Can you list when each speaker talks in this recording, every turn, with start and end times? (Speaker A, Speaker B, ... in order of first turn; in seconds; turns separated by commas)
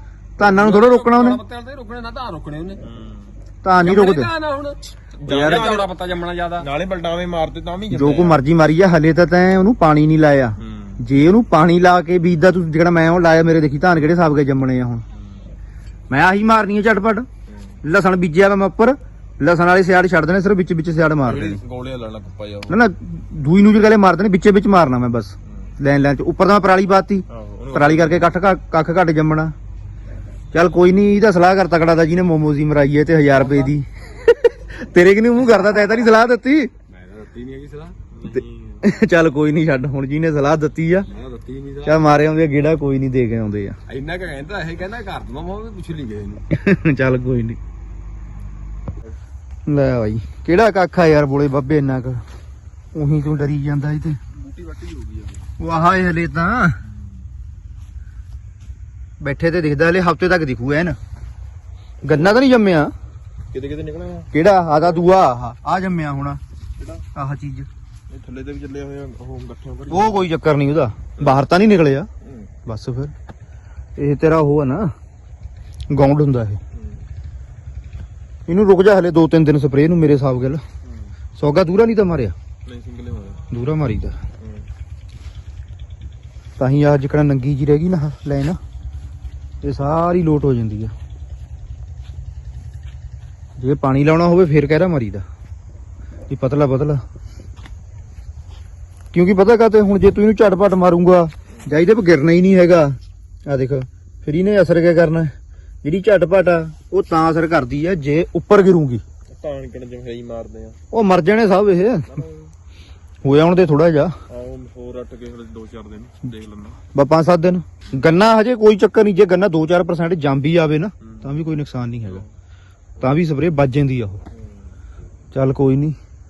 Speaker A: 0.4-1.4, Speaker B: 0.4-2.8, Speaker C: 2.8-3.3, Speaker A: 3.6-4.3, Speaker B: 3.8-6.7, Speaker C: 5.2-5.9, Speaker C: 6.6-8.4, Speaker A: 7.9-15.0, Speaker C: 10.6-11.0, Speaker C: 15.2-15.4, Speaker A: 16.1-17.3, Speaker C: 17.5-17.8, Speaker A: 17.8-21.6, Speaker C: 21.2-22.8, Speaker A: 22.7-29.5, Speaker C: 27.3-28.4, Speaker A: 30.5-36.7, Speaker B: 33.3-33.7, Speaker B: 36.9-38.0, Speaker C: 38.1-38.8, Speaker A: 38.8-41.1, Speaker B: 41.1-42.0, Speaker A: 41.8-43.8, Speaker B: 43.9-46.4, Speaker A: 46.5-47.6, Speaker A: 49.7-52.2, Speaker A: 52.9-54.2, Speaker B: 54.4-55.4, Speaker A: 55.6-56.8, Speaker A: 59.2-61.0, Speaker A: 62.0-62.9, Speaker C: 62.1-62.4, Speaker C: 63.5-64.3, Speaker A: 64.3-66.4, Speaker C: 66.8-67.0, Speaker A: 67.1-67.7, Speaker C: 68.1-70.2, Speaker A: 69.9-72.1, Speaker C: 72.2-72.5, Speaker A: 72.7-73.1, Speaker A: 74.0-74.9, Speaker A: 75.9-76.6, Speaker C: 76.8-77.0, Speaker A: 78.5-80.6, Speaker A: 81.4-82.3, Speaker C: 82.7-83.5, Speaker A: 83.5-84.1, Speaker C: 84.4-84.7, Speaker A: 86.6-88.6, Speaker A: 89.6-90.9, Speaker A: 93.6-95.2, Speaker A: 96.3-97.0, Speaker A: 99.1-105.3, Speaker A: 105.8-109.0, Speaker C: 109.3-110.8, Speaker A: 110.9-112.2, Speaker C: 112.1-112.5, Speaker A: 113.2-114.1, Speaker C: 114.3-116.8, Speaker A: 116.9-122.2, Speaker C: 121.0-121.3, Speaker A: 123.0-124.2, Speaker A: 125.3-126.0